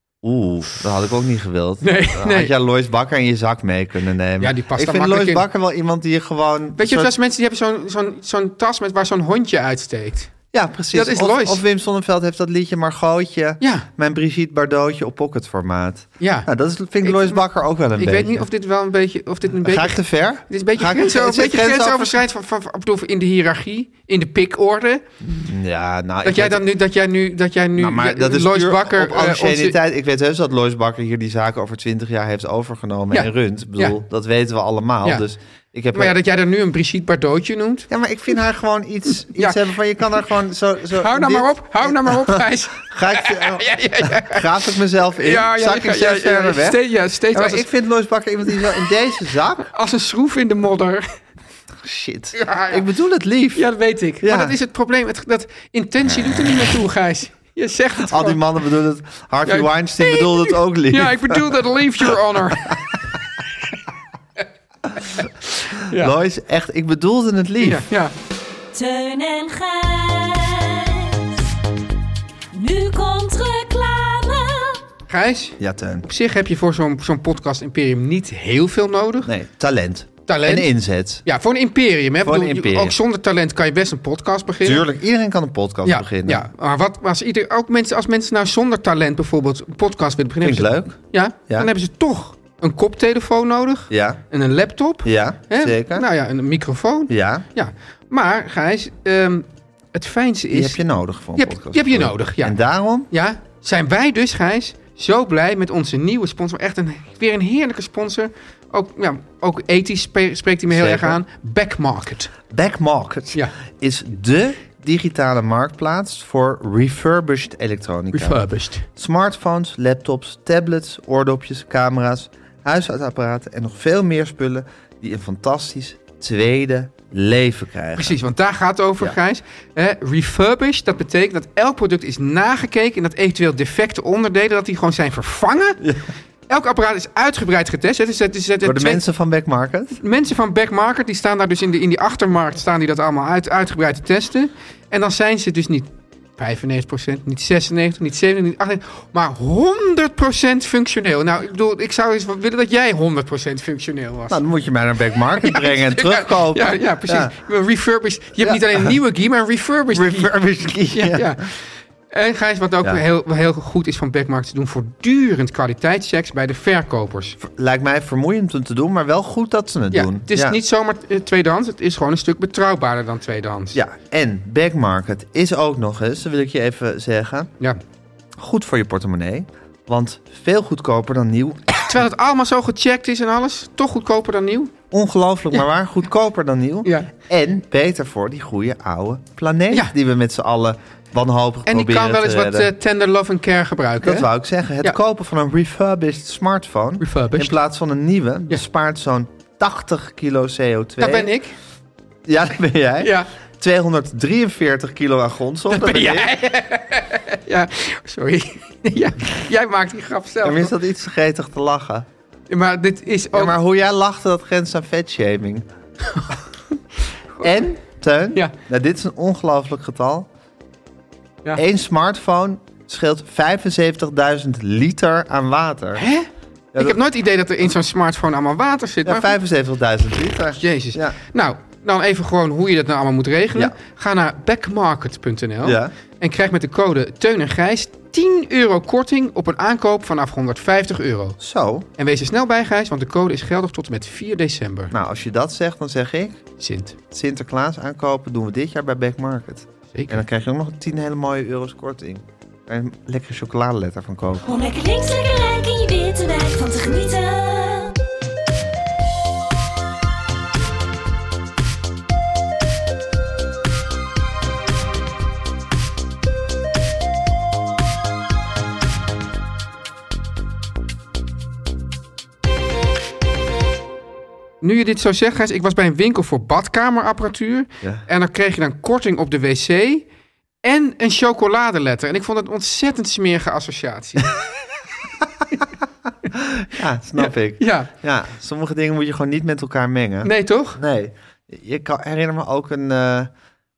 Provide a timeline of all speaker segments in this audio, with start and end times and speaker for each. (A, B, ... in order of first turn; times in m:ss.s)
0:00.2-0:07.1 A
0:01.8-0:02.5 B
0:04.4-0:05.4 B
0:06.8-0:10.3 B
0:10.5-0:18.4 A
0:10.9-0:11.6 B
0:13.6-0:13.9 B
0:16.2-0:16.5 B
0:17.0-0:25.0 B
0:19.6-0:22.2 A
0:25.2-0:26.6 A
0:26.2-0:29.8 B
0:27.8-0:36.2 A
0:33.1-0:34.0 B
0:35.9-0:37.9 B
0:37.9-0:49.7 A
0:39.3-0:39.6 B
0:40.9-0:47.7 B
0:48.6-0:48.8 B
0:49.7-0:51.2 B
0:51.8-0:54.5 A
0:52.3-0:52.8 B
0:53.5-0:58.4 B
0:58.0-1:01.6 A
0:59.4-1:03.0 B
1:05.8-1:07.8 A
1:05.8-1:06.1 B
1:07.6-1:08.1 B
1:08.7-1:11.5 C
1:12.5-1:14.8 C
1:15.1-1:19.3 B
1:15.6-1:16.0 A
1:19.2-1:21.2 A
1:20.3-1:20.7 B
1:21.2-1:24.8 B
1:22.2-1:23.0 A
1:24.6-1:26.5 A
1:25.8-1:40.8 B
1:30.4-1:31.7 A
1:33.9-1:34.2 A
1:35.0-1:36.0 A
1:37.1-1:37.4 A
1:40.5-1:43.1 A
1:41.4-1:42.6 B
1:43.1-1:52.3 B
1:50.7-1:51.2 A
1:52.5-2:08.2 A
1:58.1-1:58.9 B
2:08.0-2:15.8 B
2:15.8-2:16.0 A
2:16.5-2:19.0 B
2:18.6-2:20.0 A
2:20.0-2:34.4 B
2:34.3-2:37.3 A
2:35.4-2:40.3 B
2:38.4-2:39.0 A
2:39.9-2:41.4 A
2:40.9-2:47.4 B
2:47.4-2:50.6 A
2:49.9-2:53.8 B
2:53.7-2:57.5 A
2:58.4-3:02.0 A
3:01.8-3:04.7 B
3:04.9-3:12.7 A
3:06.8-3:07.1 B
3:11.6-3:14.3 B
3:14.0-3:21.3 A
3:17.0-3:17.6 B
3:21.0-3:21.6 B
3:22.2-3:26.3 A
3:23.0-3:23.3 B
3:25.7-3:30.7 B
3:30.4-3:32.0 A
3:32.5-3:33.6 B
3:33.3-3:35.6 A
3:37.4-3:40.3 A
3:41.5-3:46.0 A
3:46.0-3:49.4 B
3:49.0-3:51.2 A
3:50.6-4:01.4 B
3:55.6-3:55.9 A
4:01.4-4:01.9 A
4:02.0-4:04.9 B
4:04.9-4:06.4 A
4:06.6-4:07.0 B
4:07.1-4:14.5 A
4:09.9-4:10.2 B
4:14.4-4:18.0 C
4:34.6-4:40.1 B
4:40.6-4:44.4 B
4:46.4-4:53.3 A
4:47.2-4:47.9 B
4:50.2-4:50.8 B